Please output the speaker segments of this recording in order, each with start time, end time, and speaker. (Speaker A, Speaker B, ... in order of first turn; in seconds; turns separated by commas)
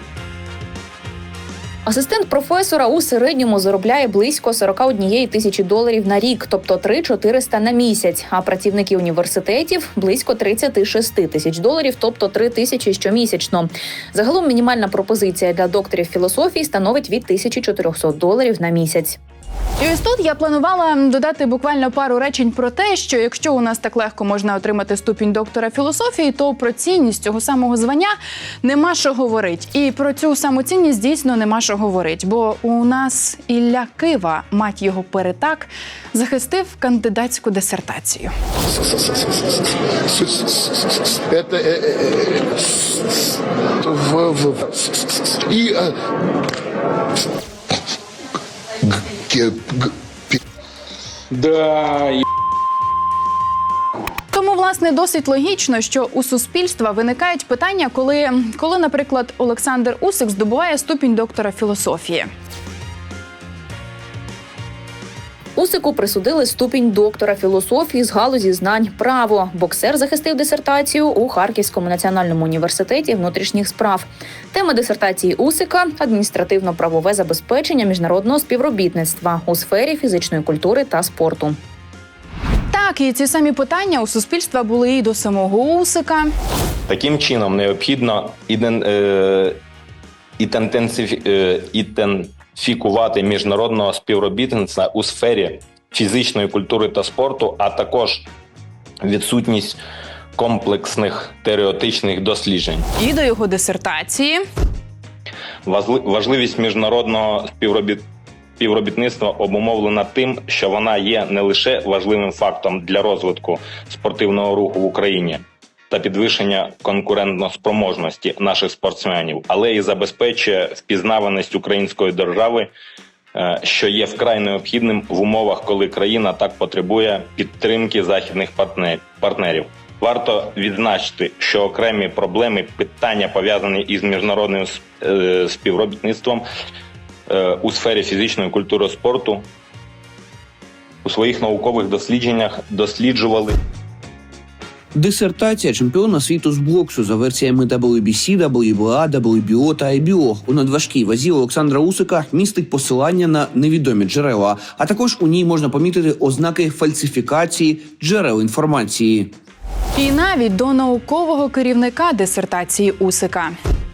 Speaker A: 1.9-19.2, Speaker B: 19.8-38.3, Speaker C: 38.7-45.9, Speaker C: 48.8-50.4, Speaker B: 54.3-62.3, Speaker A: 65.5-81.6, Speaker B: 82.7-86.3, Speaker D: 86.9-89.6, Speaker D: 90.4-98.3, Speaker D: 99.0-99.8, Speaker D: 100.3-102.8, Speaker B: 103.0-104.4, Speaker D: 105.7-108.0, Speaker D: 108.6-122.7, Speaker D: 123.3-136.4, Speaker D: 137.3-139.4, Speaker D: 141.0-143.5, Speaker E: 144.9-159.3, Speaker B: 159.9-163.6